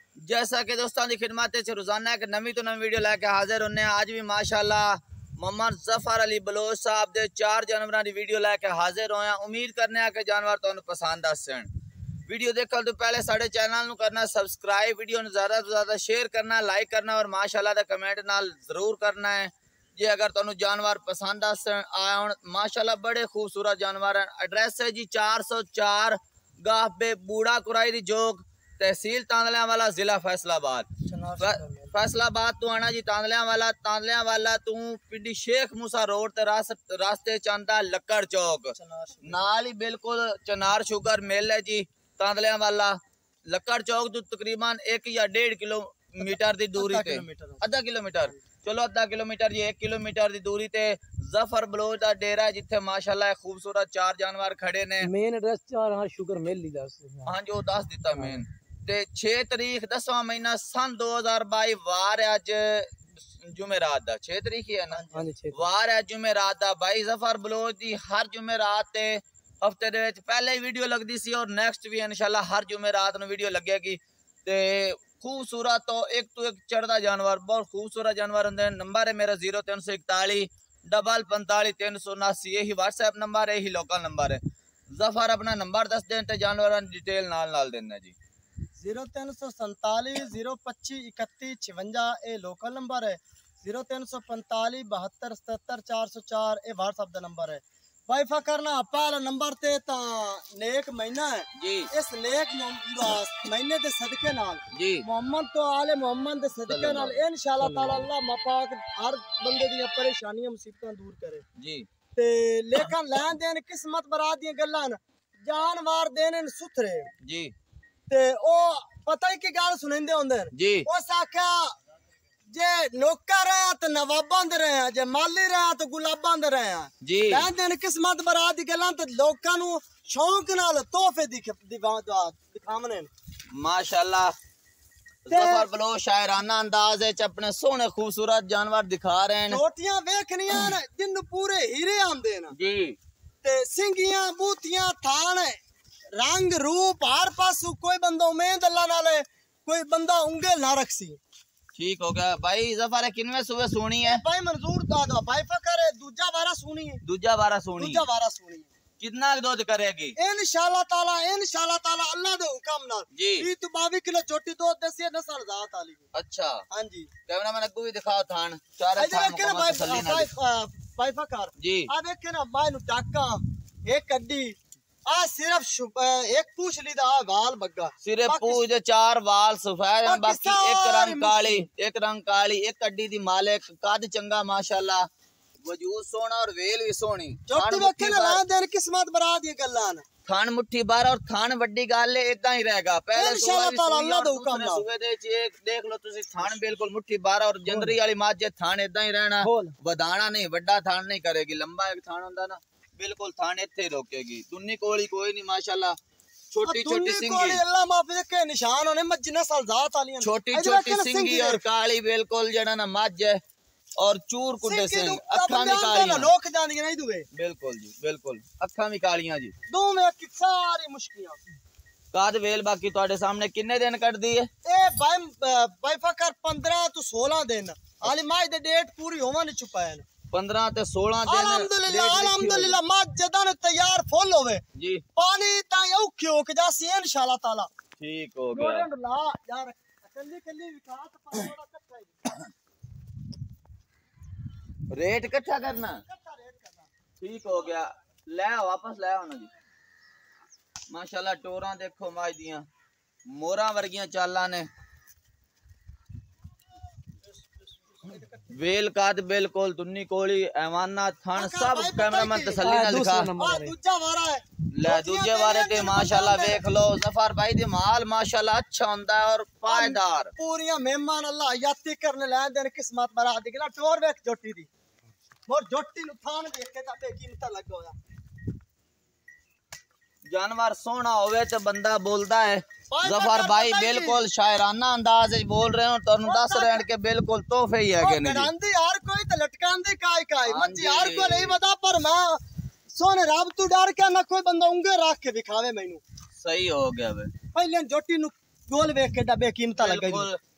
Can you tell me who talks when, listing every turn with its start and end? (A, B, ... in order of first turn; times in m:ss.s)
0:00.2-0:11.7 A
0:12.3-0:43.0 A
0:31.0-0:32.0 B
0:38.8-0:39.4 B
0:43.5-0:55.1 A
0:46.2-0:47.6 B
0:55.0-0:57.3 C
0:57.2-1:24.4 A
0:58.1-0:58.4 C
1:04.9-1:05.3 B
1:05.1-1:05.6 C
1:24.9-1:28.2 A
1:28.8-1:51.4 B
1:41.6-1:41.9 A
1:44.7-1:45.1 A
1:46.7-1:47.2 A
1:47.6-1:48.1 C
1:51.6-1:51.9 A
1:52.2-1:57.1 B
1:57.2-1:57.5 A
1:58.1-2:01.7 B
2:00.5-2:00.9 A
2:02.5-2:13.1 B
2:07.0-2:07.5 A
2:13.5-2:14.3 A
2:15.2-2:19.6 A
2:15.3-2:15.7 B
2:19.5-2:22.6 B
2:22.5-2:23.0 A
2:23.4-2:25.6 B
2:26.1-2:31.2 B
2:31.8-2:34.2 A
2:34.0-2:37.0 B
2:37.0-2:38.1 A
2:37.8-2:38.7 B
2:39.0-2:40.2 A
2:40.2-2:46.0 B
2:43.1-2:43.5 A
2:46.1-2:46.6 A
2:46.7-2:47.1 B
2:47.3-2:50.3 A
2:49.0-2:58.6 B
2:51.6-2:51.9 A
2:58.0-3:05.1 A
3:00.0-3:01.7 B
3:05.6-3:08.4 A
3:07.5-3:10.0 B
3:10.2-3:26.0 A
3:13.2-3:14.8 B
3:17.7-3:18.0 B
3:19.4-3:19.8 B
3:26.5-3:27.6 A
3:26.6-3:31.6 B
3:30.2-3:33.4 A
3:34.0-3:36.3 A
3:34.6-3:37.3 B
3:37.3-3:39.6 A
3:39.7-3:41.4 B
3:42.1-3:44.5 A
3:44.6-3:50.0 B
3:50.3-3:52.8 A
3:51.3-3:54.6 B
3:54.8-3:55.0 A
3:55.2-3:57.7 B
3:58.0-3:58.9 A
3:58.5-4:02.1 B
4:04.9-4:06.0 A
4:06.0-4:06.9 B
4:07.2-4:09.5 A
4:10.9-4:12.7 A
4:13.3-4:14.7 A
4:18.5-4:23.3 A
4:21.4-4:26.6 B
4:22.6-4:23.8 C
4:24.7-4:30.3 A
4:29.7-4:34.7 B
4:35.5-4:38.0 B
4:40.3-4:48.5 A
4:42.9-4:44.3 B
4:46.2-4:46.9 B
4:48.0-4:56.0 B
4:50.4-4:51.6 A
4:56.4-4:57.3 A
4:57.5-5:00.3 B
4:59.8-5:00.4 A